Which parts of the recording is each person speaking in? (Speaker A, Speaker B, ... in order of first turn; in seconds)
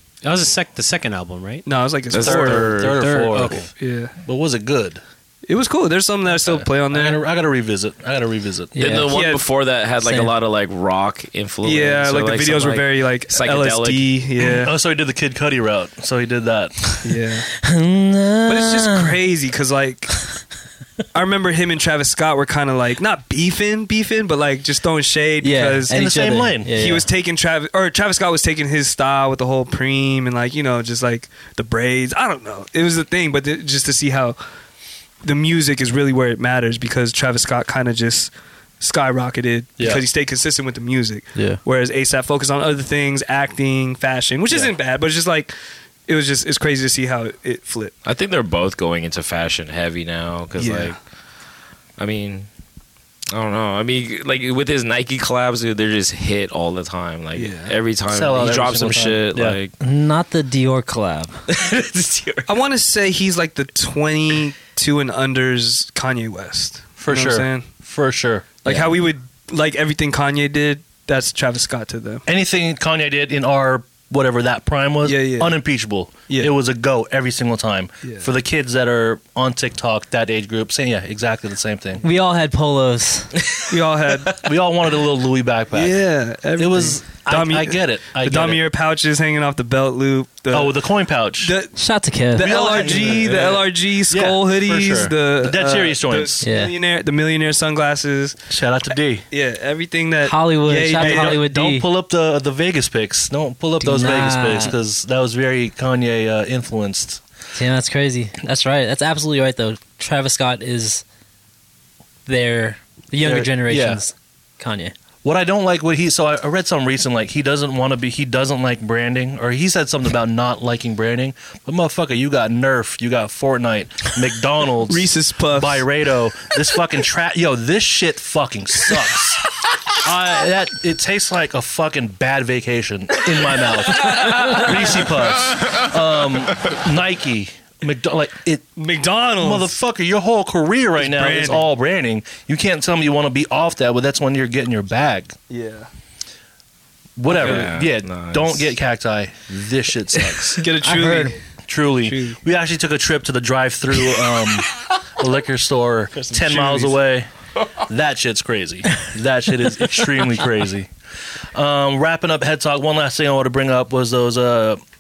Speaker A: 0.2-1.7, 2.9-3.7
Speaker B: 1.7-2.8, 3.8-4.1, 5.5-7.2, 9.1-9.4, 11.6-14.7, 17.0-17.5, 18.5-20.2, 21.1-26.0, 26.7-34.4, 35.2-45.5, 46.1-47.9, 50.6-51.0, 57.4-57.8, 62.5-67.7, 68.6-72.2, 75.0-75.5, 78.0-78.3, 83.7-84.5, 85.7-90.8, 91.4-91.8, 92.3-98.4, 99.3-101.4, 124.9-125.9, 134.1-134.9, 138.8-139.8, 141.0-141.7, 145.5-145.9, 147.3-147.7, 150.2-151.4, 152.0-152.4, 156.2-157.0
Speaker C: 2.1-3.1, 8.8-14.1, 48.0-51.0, 52.0-52.5, 53.3-59.8, 61.5-62.5, 147.3-148.7
Speaker D: 2.2-5.0, 6.5-8.8, 14.4-16.8, 25.9-26.7, 39.8-40.0, 58.1-59.6, 67.0-68.5, 72.3-82.0, 84.3-86.0, 86.6-88.6, 90.5-91.5, 92.4-96.5, 98.5-99.3, 101.0-107.2, 113.2-114.0, 115.2-138.7, 139.4-145.4, 147.2-150.7, 151.7-160.9, 161.5-164.8
Speaker E: 8.7-9.3, 10.0-10.3, 17.6-19.2, 25.4-27.1, 59.8-61.4, 82.0-83.4, 91.8-93.0, 96.4-96.7, 100.2-101.9, 103.8-104.7, 107.5-111.0, 112.3-114.9, 150.8-151.4